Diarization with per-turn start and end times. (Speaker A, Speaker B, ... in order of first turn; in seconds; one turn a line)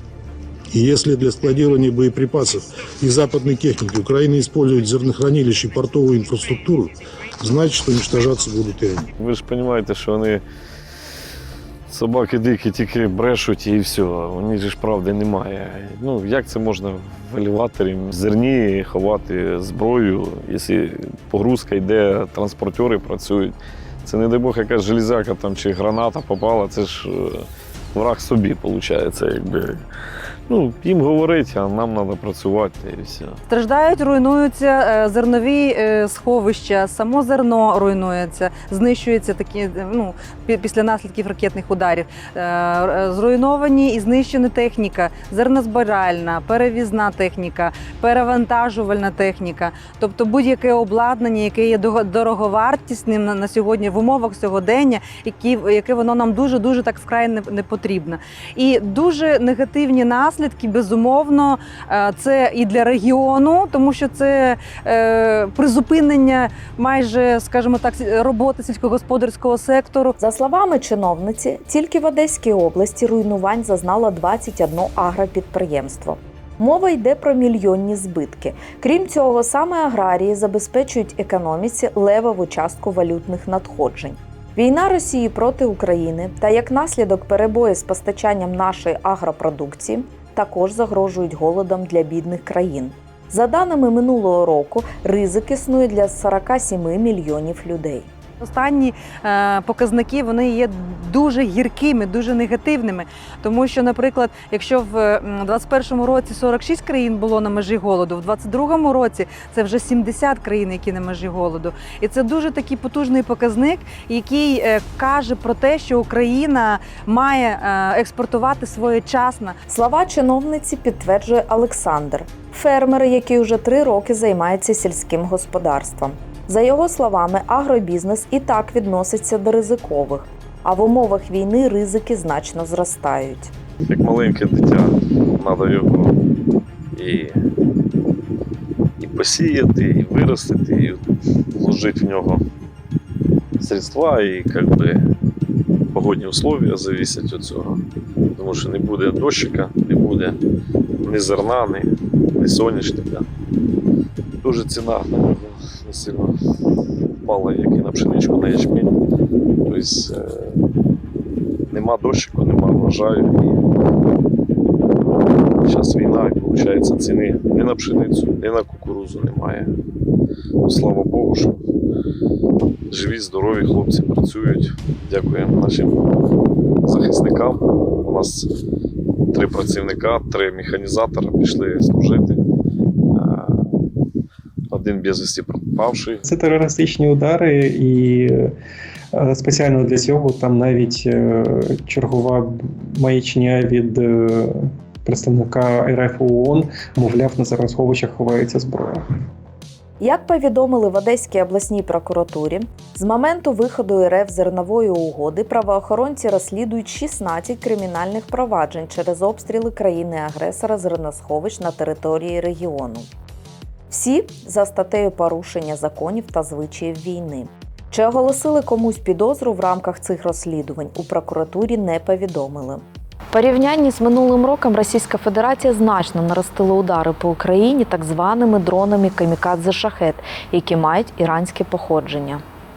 Speaker A: 0.7-9.1
Speaker B: 9.2-10.4
Speaker B: 11.9-29.8
Speaker B: 30.5-33.4
Speaker C: 33.5-70.1
Speaker D: 70.2-98.1
Speaker C: 98.4-119.6
Speaker D: 119.7-133.5
Speaker B: 133.9-136.2
Speaker B: 136.9-137.3
Speaker B: 139.0-141.0
Speaker B: 141.5-142.4
Speaker B: 143.6-145.0
Speaker B: 145.9-147.8
Speaker B: 148.3-150.4
Speaker B: 151.0-153.3
Speaker B: 154.4-156.3
Speaker B: 157.2-159.0
Speaker B: 159.7-160.6
Speaker B: 161.7-163.7
Speaker B: 165.5-169.7
Speaker B: 170.6-171.6
Speaker B: 172.9-176.1
Speaker B: 176.8-178.5
Speaker B: 179.3-182.4
Speaker B: 183.1-183.8
Speaker B: 184.7-186.2
Speaker E: 186.2-188.6
Speaker E: 189.1-199.0
Speaker D: 200.0-213.1
Speaker D: 213.9-232.4